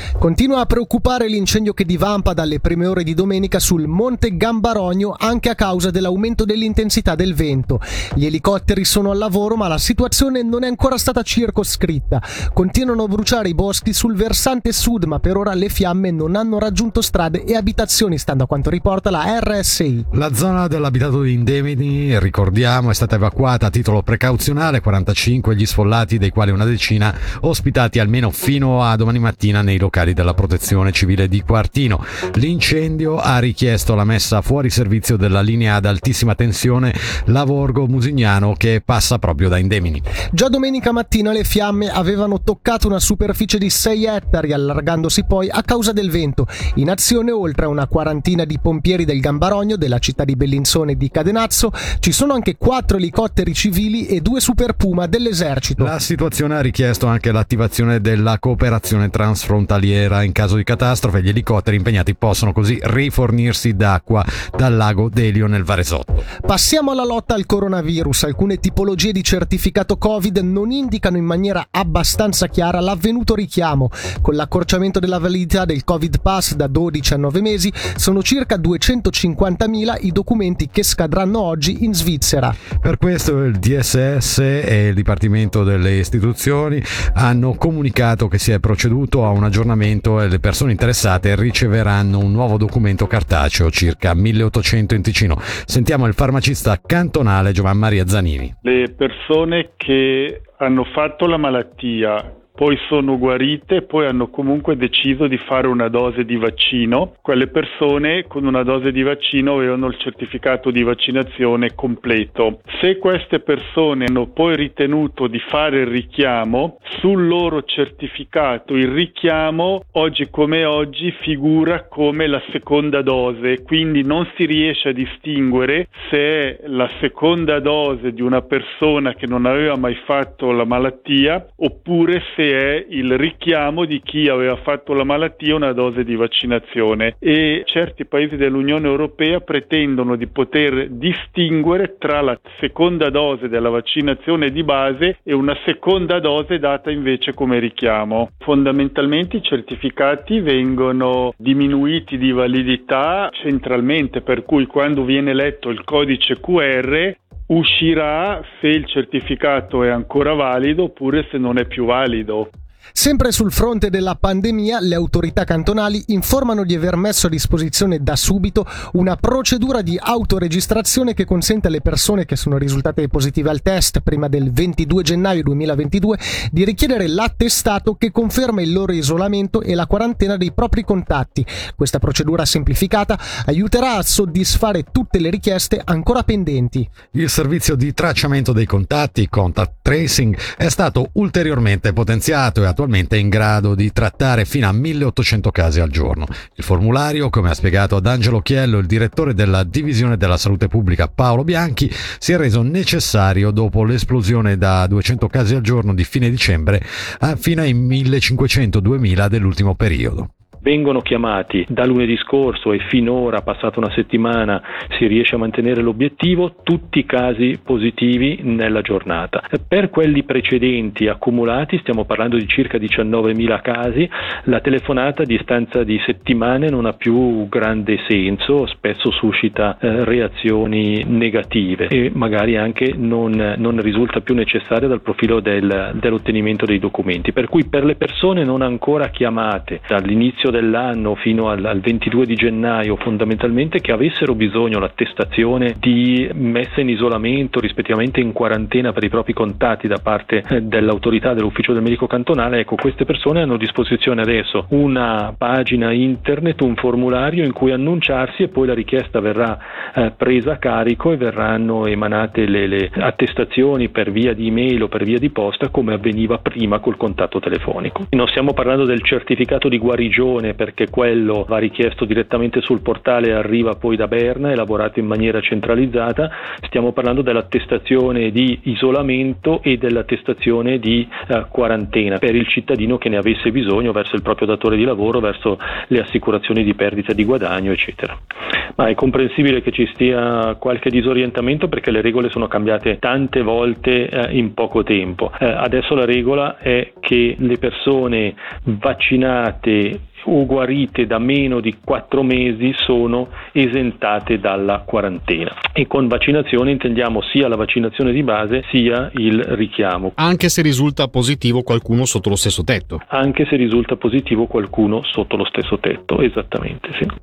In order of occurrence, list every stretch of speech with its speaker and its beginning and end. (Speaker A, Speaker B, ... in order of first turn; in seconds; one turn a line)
Speaker A: 0.2-20.1
Speaker B: 20.1-40.0
Speaker A: 40.3-55.9
Speaker B: 55.8-66.2
Speaker A: 66.4-82.6
Speaker B: 82.8-98.5
Speaker C: 98.6-162.5
Speaker A: 162.9-186.9
Speaker B: 187.1-210.3
Speaker D: 210.6-288.2
Speaker D: 288.8-310.1
Speaker E: 310.2-313.0
Speaker D: 313.1-317.1